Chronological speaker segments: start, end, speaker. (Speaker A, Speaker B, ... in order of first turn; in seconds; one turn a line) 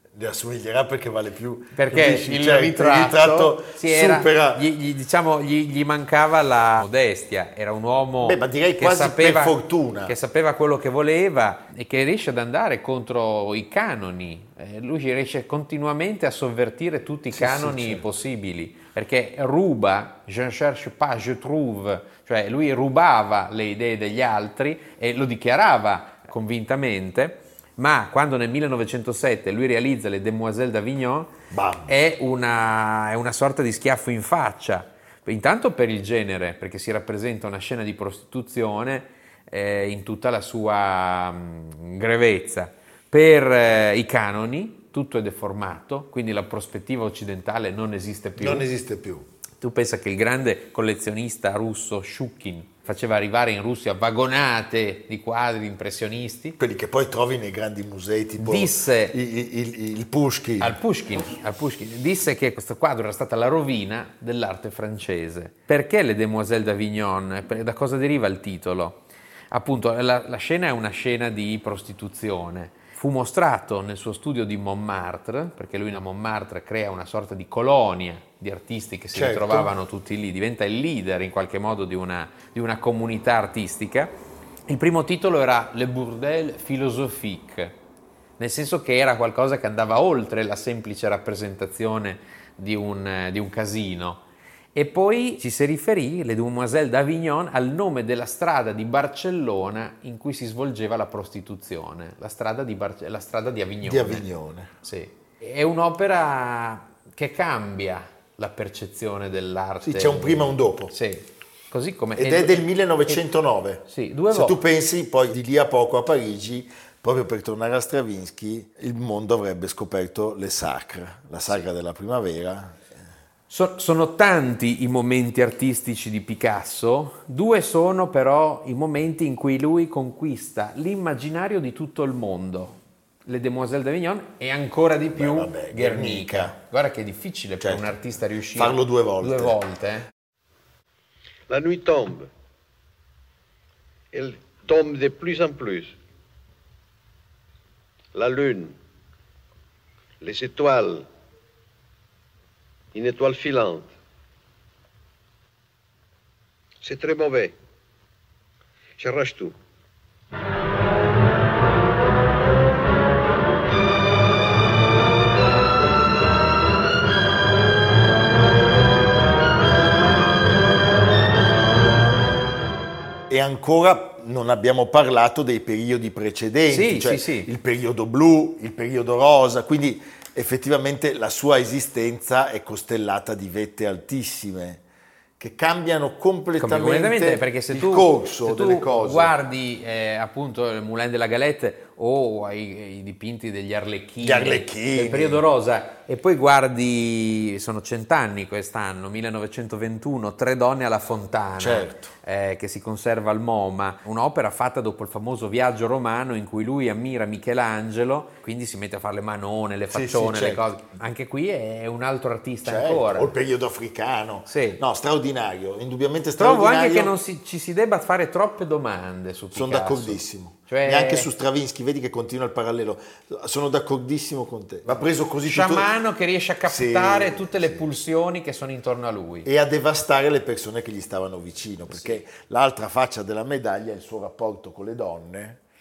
Speaker A: 0.1-4.7
Speaker B: 1.8-31.3
Speaker A: 8.2-10.2
Speaker A: 17.3-18.1
Speaker A: 31.5-31.9
Speaker B: 31.9-48.6
Speaker A: 48.4-49.3
Speaker B: 49.6-56.6
Speaker A: 56.6-60.8
Speaker B: 58.4-59.2
Speaker B: 60.6-84.1
Speaker A: 79.1-79.7
Speaker B: 84.7-87.8
Speaker B: 88.4-94.2
Speaker B: 94.8-104.3
Speaker A: 103.8-104.7
Speaker B: 104.8-113.2
Speaker A: 109.8-110.9
Speaker A: 112.2-122.9
Speaker B: 113.9-114.6
Speaker B: 123.5-140.1
Speaker A: 135.1-136.6
Speaker A: 137.6-138.0
Speaker A: 138.5-139.6
Speaker C: 141.5-142.3
Speaker C: 144.1-145.9
Speaker C: 148.1-148.7
Speaker C: 150.2-151.1
Speaker C: 152.9-153.9
Speaker C: 156.8-157.5
Speaker C: 159.0-159.5
Speaker A: 173.3-184.8
Speaker B: 176.7-177.5
Speaker A: 185.4-189.3
Speaker B: 186.6-213.3
Speaker A: 194.2-195.4
Speaker A: 201.6-202.1
Speaker A: 209.9-210.7
Speaker A: 212.6-217.1
Speaker B: 214.5-214.8
Speaker B: 216.4-221.3
Speaker A: 219.5-225.9
Speaker B: 225.4-229.5
Speaker A: 226.6-227.9
Speaker A: 229.4-235.6
Speaker B: 231.9-232.2